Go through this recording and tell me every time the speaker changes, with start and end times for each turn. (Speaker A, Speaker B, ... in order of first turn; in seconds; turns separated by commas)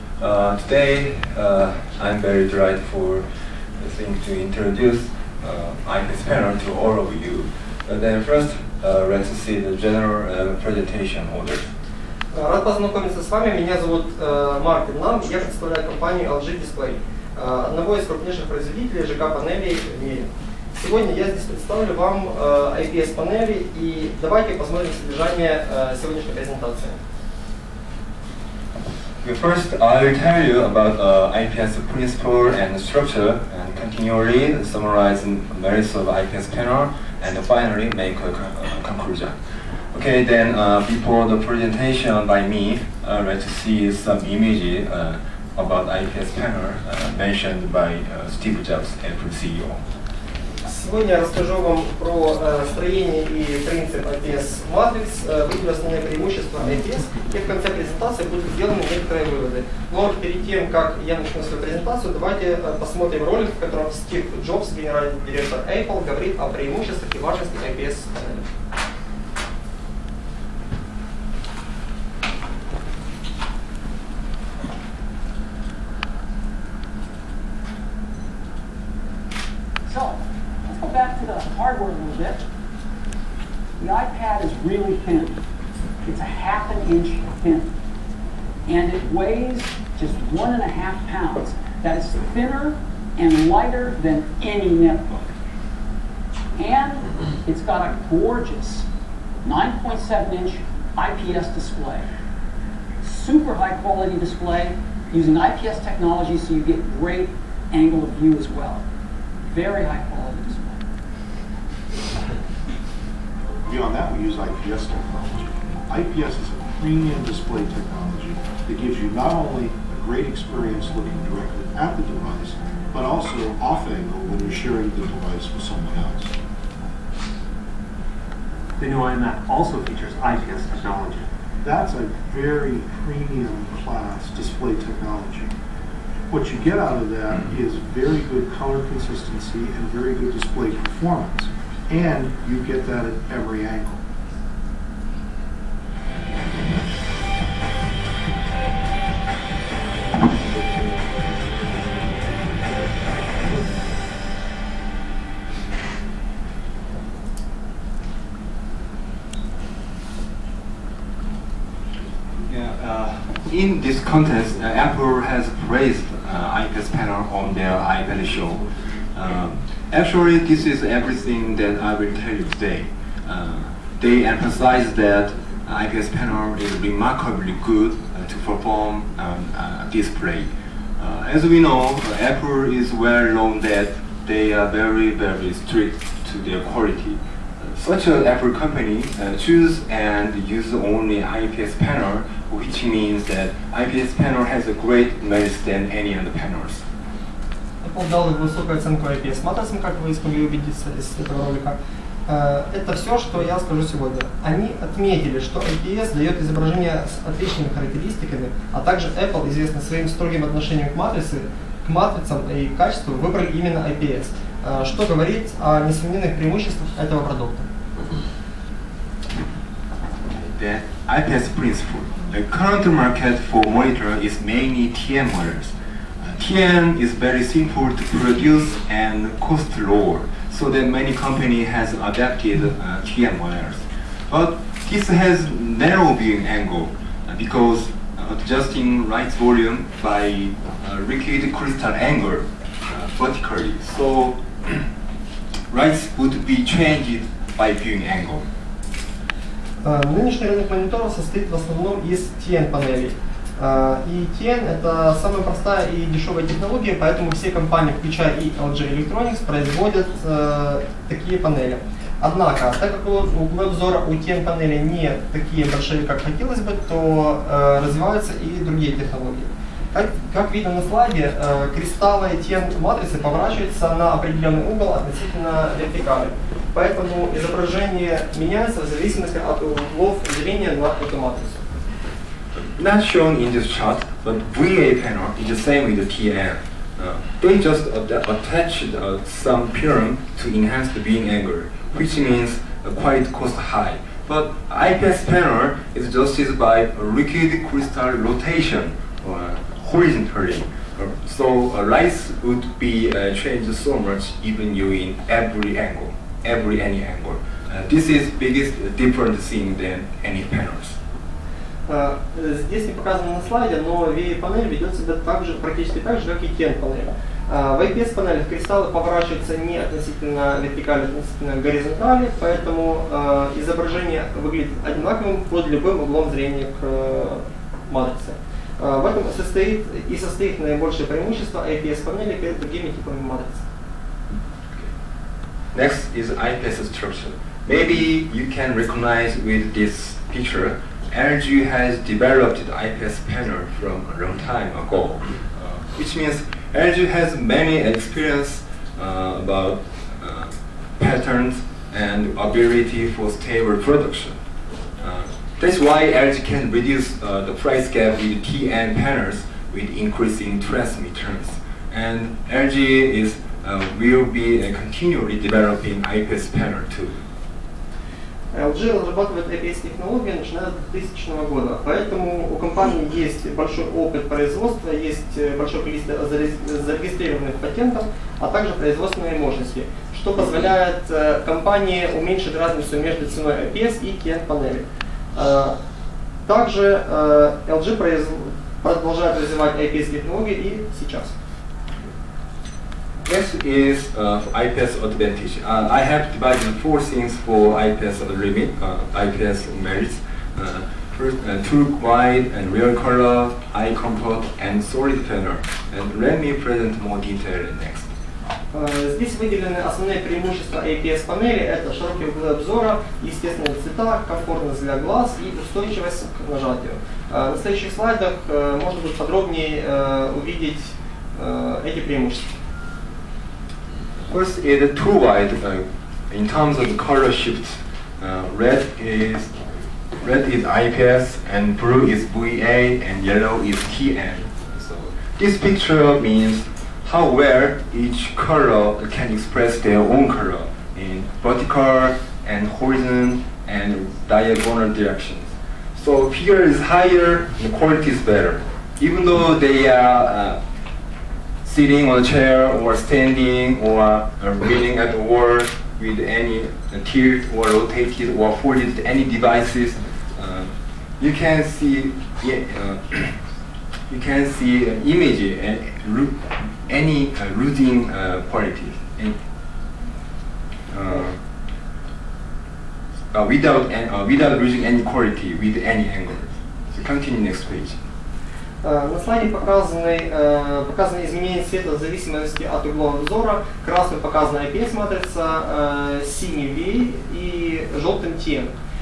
Speaker A: 0.2-3.2, Speaker A: 3.8-11.7, Speaker B: 12.3-27.0, Speaker A: 29.2-39.4, Speaker A: 39.9-49.8, Speaker B: 50.6-68.4, Speaker C: 79.9-82.4, Speaker C: 83.8-85.3, Speaker C: 86.1-87.7, Speaker C: 88.7-95.2, Speaker C: 96.6-98.8, Speaker C: 99.5-102.0, Speaker C: 103.0-108.8, Speaker C: 109.5-110.8, Speaker D: 113.7-126.3, Speaker E: 128.8-131.3, Speaker D: 131.6-135.5, Speaker D: 136.3-144.0, Speaker A: 162.5-196.8, Speaker B: 197.8-201.8, Speaker B: 202.3-217.7, Speaker A: 220.4-244.9, Speaker A: 245.7-248.5, Speaker B: 249.8-281.6, Speaker A: 282.6-311.0, Speaker B: 311.9-333.6, Speaker A: 335.7-354.4, Speaker A: 355.0-367.2, Speaker B: 368.5-384.8, Speaker B: 385.4-385.7, Speaker B: 386.5-391.3, Speaker A: 393.2-408.1, Speaker B: 408.7-422.5, Speaker A: 424.3-429.5, Speaker A: 430.2-450.6, Speaker A: 451.6-463.4, Speaker A: 464.1-469.4, Speaker A: 470.9-471.4, Speaker A: 473.3-478.0, Speaker B: 478.8-488.7